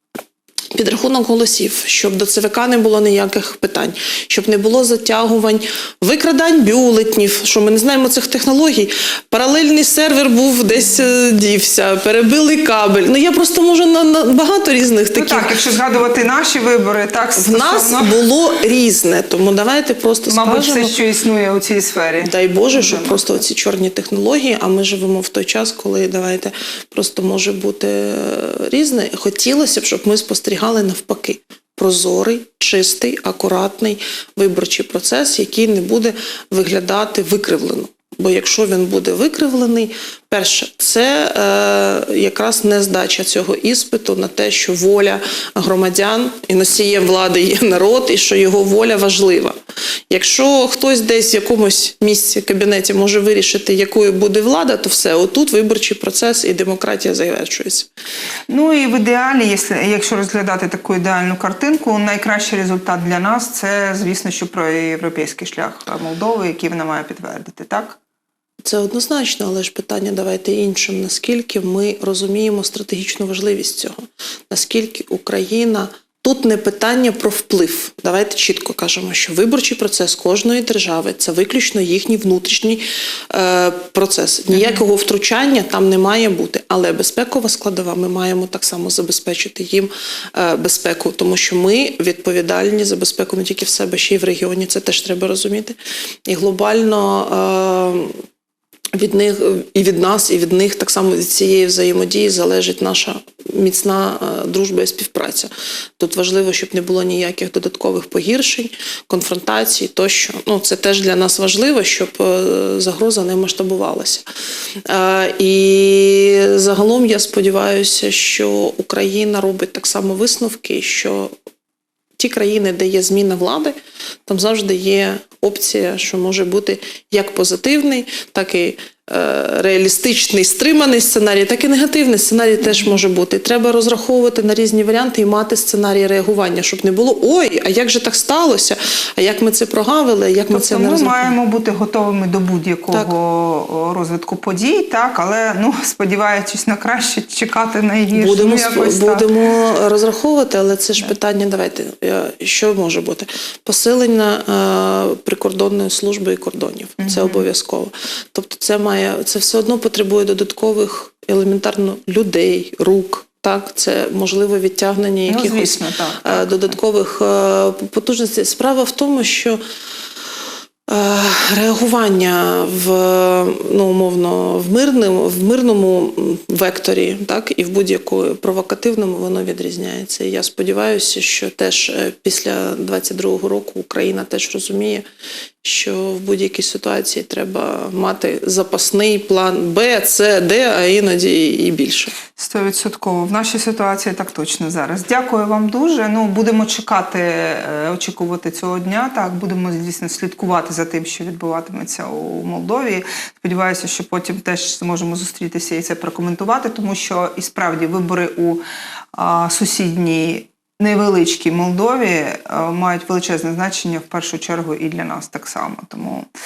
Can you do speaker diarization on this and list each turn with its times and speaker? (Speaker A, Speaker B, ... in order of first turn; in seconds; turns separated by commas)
Speaker A: 0.7-15.6, Speaker B: 15.1-18.2, Speaker A: 17.4-20.9, Speaker B: 20.3-23.3, Speaker A: 22.2-49.5, Speaker A: 50.1-57.9, Speaker B: 58.5-68.0, Speaker A: 68.6-74.0, Speaker A: 74.5-98.1, Speaker B: 84.5-84.8, Speaker A: 98.9-114.2, Speaker A: 114.9-121.3, Speaker A: 122.2-141.3, Speaker B: 140.5-149.3, Speaker A: 148.1-169.6, Speaker B: 157.0-157.4, Speaker B: 165.3-166.8, Speaker A: 170.9-185.0, Speaker A: 185.6-192.1, Speaker B: 192.3-208.6, Speaker B: 209.1-216.3